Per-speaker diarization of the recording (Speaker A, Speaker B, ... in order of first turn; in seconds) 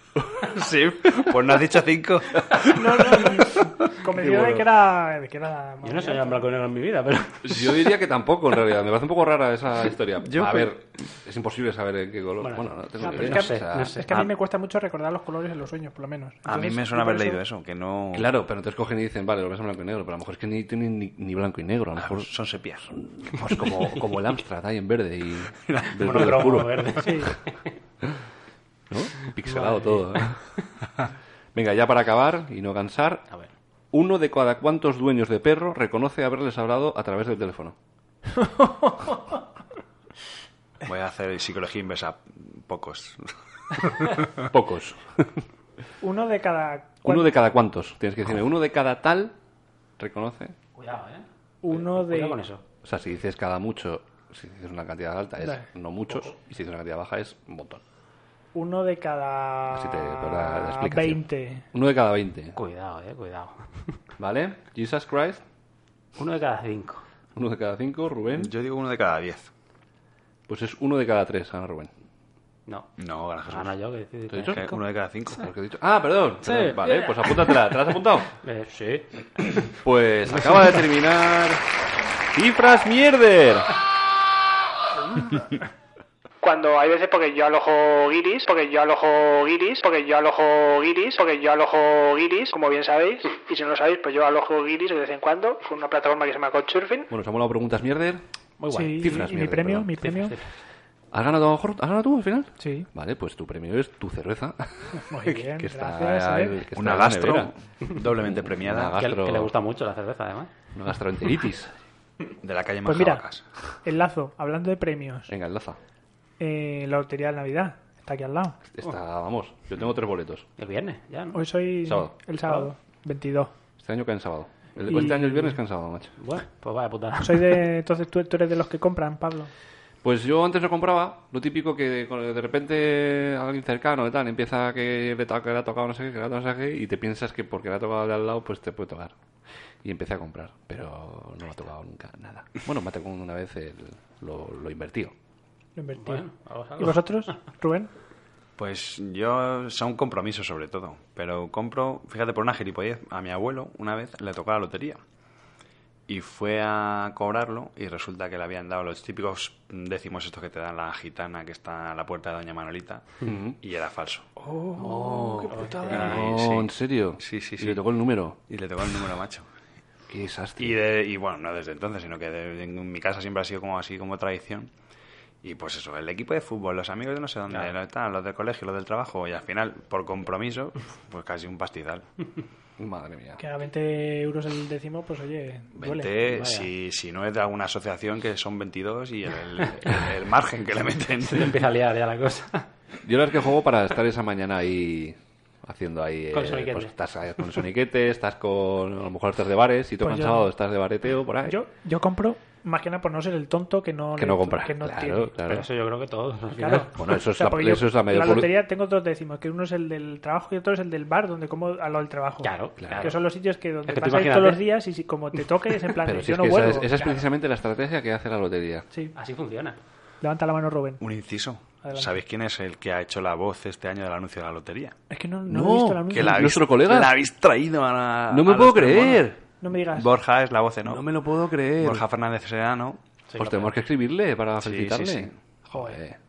Speaker A: 0.4-3.4, 10.3-10.8, 16.5-18.3, 22.0-22.9, 25.7-26.2, 40.8-44.3, 68.4-69.5, 73.0-73.7, 74.5-75.5, 106.8-109.0, 112.4-113.5, 148.6-155.0, 156.1-164.3, 165.9-167.8, 168.5-169.5, 170.6-174.7, 175.4-182.1, 185.8-191.6, 221.0-225.0, 226.1-229.3, 229.8-231.1, 231.8-233.0, 234.6-235.3
Speaker B: 2.6-6.4, 13.0-17.4, 27.0-27.3, 38.5-38.9, 46.0-47.3, 51.6-52.4, 58.5-61.6, 86.4-97.1, 98.7-100.3, 102.6-102.9, 104.9-106.6, 112.8-113.2, 113.8-115.3, 116.4-118.6, 121.3-123.5, 124.9-125.5, 127.2-129.5, 145.8-147.9, 164.4-166.1, 183.4-186.1, 200.0-200.5, 201.4-205.3, 206.6-217.2, 220.2-221.0, 221.8-222.1, 225.1-226.5, 229.6-230.1
Speaker C: 4.1-4.7, 7.5-14.2, 18.1-22.3, 23.0-27.3, 28.9-30.4, 31.6-33.2, 33.9-37.8, 44.4-45.5, 47.0-49.4, 50.0-50.6, 52.8-57.8, 59.7-62.6, 64.2-65.4, 67.4-68.5, 70.5-71.9, 74.3-74.7, 75.4-78.3, 79.8-81.7, 82.3-83.7, 97.1-98.2, 98.9-99.9, 101.1-107.5, 108.2-109.5, 110.8-111.7, 115.3-115.8, 118.7-120.5, 121.9-122.1, 123.8-126.2, 130.0-139.2, 139.8-145.1, 163.2-163.6, 164.8-168.4, 170.1-170.8, 182.8-183.4, 193.0-201.6, 204.2-205.7, 206.9-208.5, 212.8-213.1, 216.0-218.8, 225.5-227.2, 228.3-229.4, 230.8-232.1, 233.4-236.2
Speaker D: 5.8-7.7, 12.4-14.3, 26.0-27.7, 29.4-30.6, 50.8-52.6, 62.5-64.0, 66.2-67.0, 72.7-72.9, 73.5-74.8, 76.4-77.7, 78.4-79.7, 80.3-80.8, 98.6-99.3, 100.0-100.4, 109.0-110.5, 120.6-121.4, 126.2-127.6, 146.0-147.3, 165.5-166.2, 186.2-186.7, 191.2-192.7, 196.3-196.9, 205.5-206.9, 212.4-213.2, 213.9-214.7, 219.2-219.8, 233.3-233.7